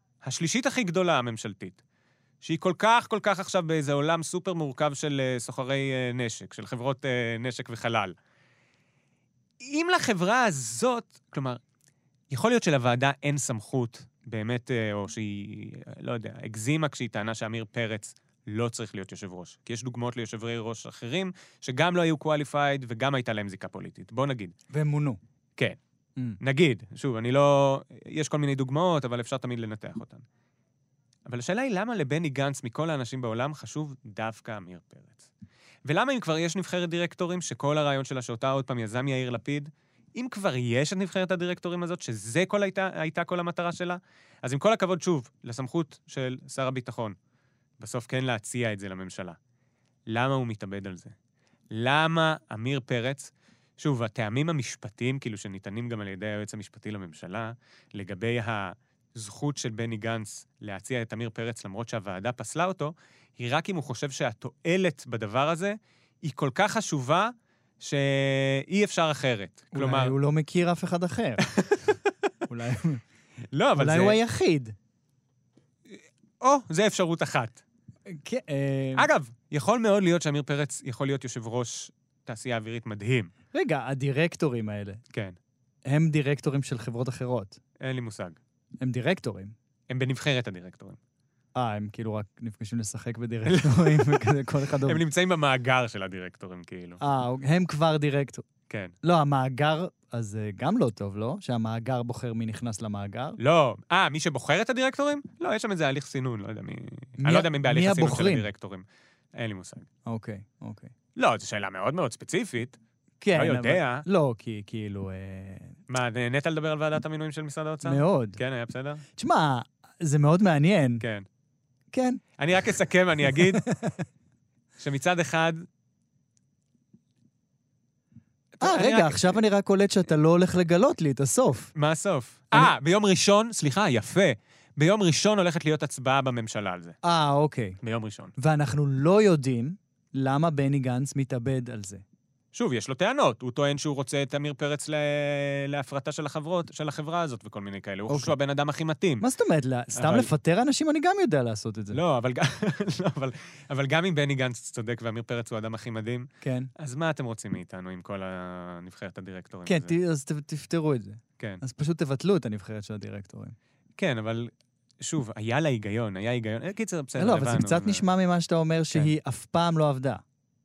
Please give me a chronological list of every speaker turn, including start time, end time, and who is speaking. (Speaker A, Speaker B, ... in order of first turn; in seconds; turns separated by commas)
Speaker A: 0.2-1.8, Speaker A: 2.4-8.1, Speaker A: 9.6-11.6, Speaker A: 12.3-24.5, Speaker B: 24.7-25.2, Speaker A: 26.4-30.3, Speaker A: 31.3-35.3, Speaker A: 35.9-47.2, Speaker A: 47.8-49.4, Speaker A: 50.1-51.1, Speaker A: 51.7-70.2, Speaker B: 69.7-71.9, Speaker A: 71.4-72.1, Speaker B: 72.5-73.0, Speaker A: 73.5-74.2, Speaker B: 73.8-74.8, Speaker A: 75.9-77.6, Speaker B: 78.1-79.1, Speaker A: 79.0-83.3, Speaker B: 83.5-85.0, Speaker A: 85.1-85.4, Speaker B: 85.9-87.6, Speaker A: 87.8-88.4, Speaker B: 88.8-89.5, Speaker A: 89.9-91.0, Speaker B: 91.5-95.0, Speaker A: 93.5-97.0, Speaker B: 97.0-98.5, Speaker A: 98.7-99.0, Speaker B: 99.0-103.4, Speaker A: 103.4-109.9, Speaker B: 107.2-108.5, Speaker B: 110.1-110.9, Speaker A: 111.2-112.8, Speaker B: 113.2-115.8, Speaker A: 113.3-114.0, Speaker A: 115.9-119.0, Speaker B: 117.8-118.4, Speaker B: 119.2-121.0, Speaker A: 121.0-121.3, Speaker B: 121.9-122.2, Speaker A: 122.4-123.6, Speaker B: 123.4-124.0, Speaker A: 124.8-125.7, Speaker A: 128.6-129.4, Speaker B: 128.6-131.7, Speaker A: 131.8-137.0, Speaker B: 137.0-137.8, Speaker A: 137.8-138.3, Speaker B: 138.4-142.0, Speaker A: 142.5-149.2, Speaker B: 148.1-148.3, Speaker B: 149.2-152.0, Speaker A: 149.9-150.3, Speaker A: 151.9-159.9, Speaker B: 156.4-156.7, Speaker B: 159.7-163.6, Speaker A: 164.0-168.1, Speaker B: 167.2-170.2